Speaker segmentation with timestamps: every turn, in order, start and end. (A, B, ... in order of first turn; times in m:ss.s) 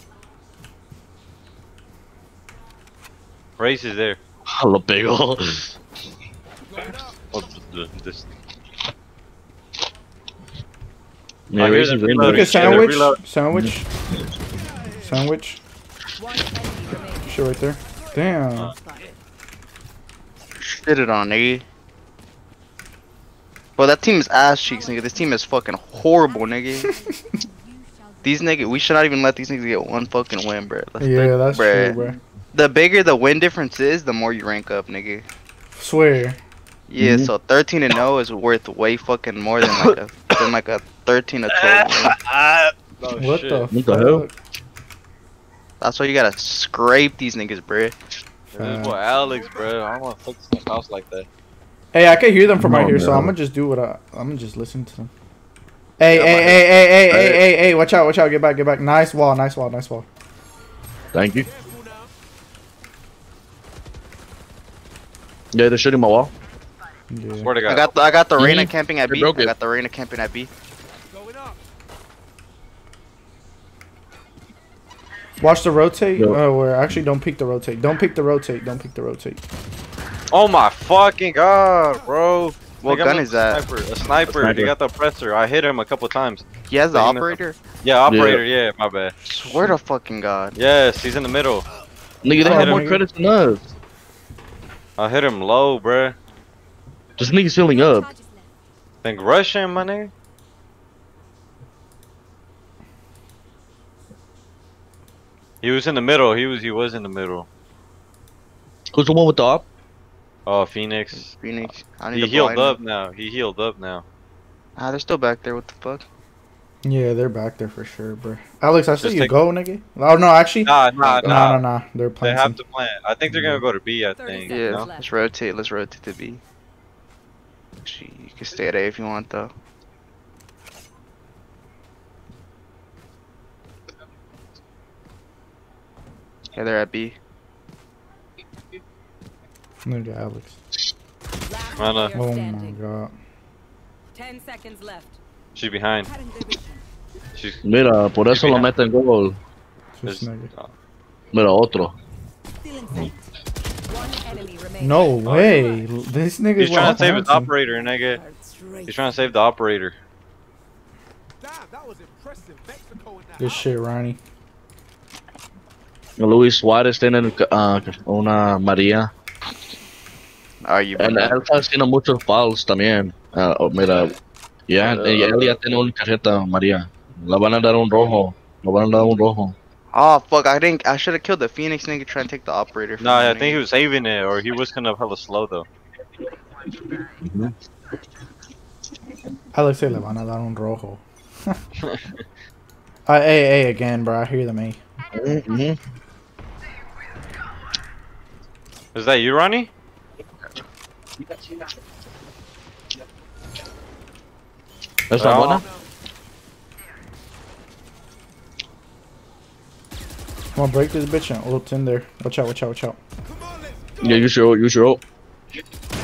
0:03.6-0:04.2 A
0:04.5-0:05.8 B
0:07.3-0:08.3 A
0:11.5-0:12.9 B
0:11.6-0:13.2 A
0:12.2-0:13.9 C
0:15.0-0:15.6 C
0:16.2-0:17.4 D
0:17.2-0:18.7 C
0:18.8-0:19.2 D
0:20.6-0:21.6 E
0:23.8-0:26.9 E
0:25.0-0:25.3 D
0:26.4-0:28.7 D
0:28.2-0:32.0 E
0:31.0-0:32.2 C
0:32.5-0:35.2 E
0:35.8-0:36.4 C
0:36.9-0:42.2 E
0:37.0-0:37.3 B
0:41.6-0:42.7 B
0:43.0-0:43.7 A
0:43.2-0:44.3 C
0:43.7-0:44.3 B
0:45.8-0:48.0 E
0:48.5-0:51.3 A
0:48.6-0:49.0 C
0:51.9-0:55.1 C
0:52.6-0:53.3 B
0:56.0-1:00.1 C
0:57.1-0:57.4 B
1:01.1-1:01.5 B
1:05.5-1:06.3 B
1:07.1-1:07.5 C
1:07.4-1:07.9 A
1:07.7-1:10.5 E
1:08.4-1:09.5 B
1:15.4-1:19.4 C
1:20.3-1:29.1 A
1:22.8-1:23.6 E
1:24.3-1:24.7 B
1:26.7-1:27.6 E
1:28.1-1:28.4 B
1:29.3-1:30.6 E
1:30.6-1:31.7 A
1:32.2-1:33.7 B
1:32.4-1:32.8 A
1:32.4-1:33.0 C
1:35.0-1:36.2 A
1:37.2-1:38.1 B
1:37.6-1:38.5 D
1:39.0-1:40.1 A
1:45.6-1:47.5 A
1:48.9-1:49.6 B
1:50.5-1:51.3 A
1:51.2-1:52.8 E
1:52.1-1:54.0 A
1:54.8-1:56.0 E
1:56.8-2:02.6 C
1:59.0-1:59.3 A
2:00.6-2:01.6 A
2:01.0-2:01.4 E
2:02.2-2:04.9 A
2:03.3-2:03.6 C
2:04.2-2:05.1 D
2:04.5-2:06.4 E
2:07.8-2:09.5 E
2:16.6-2:17.2 E
2:19.8-2:20.6 C
2:21.4-2:22.8 D
2:21.8-2:22.1 A
2:22.2-2:23.1 C
2:24.1-2:25.2 D
2:25.6-2:26.1 A
2:26.0-2:26.8 D
2:27.4-2:27.6 A
2:27.6-2:29.4 B
2:28.3-2:28.7 A
2:30.0-2:30.5 C
2:30.1-2:30.7 A
2:31.3-2:31.9 B
2:32.6-2:33.3 D
2:33.9-2:35.9 D
2:34.8-2:37.5 C
2:35.2-2:35.6 A
2:36.6-2:38.2 A
2:37.9-2:39.2 D
2:38.9-2:40.0 A
2:43.4-2:44.2 C
2:46.2-2:49.1 B
2:50.6-2:51.4 E
2:51.0-2:54.2 B
2:54.7-2:59.6 B
2:54.8-2:55.5 A
2:59.9-3:03.6 E
3:03.0-3:05.7 A
3:07.0-3:07.5 B
3:09.5-3:11.6 C
3:11.8-3:12.0 A
3:13.1-3:14.8 C
3:15.1-3:15.8 B
3:19.0-3:19.7 A
3:25.1-3:25.6 B
3:25.2-3:25.6 A
3:30.6-3:33.0 C
3:34.0-3:35.0 B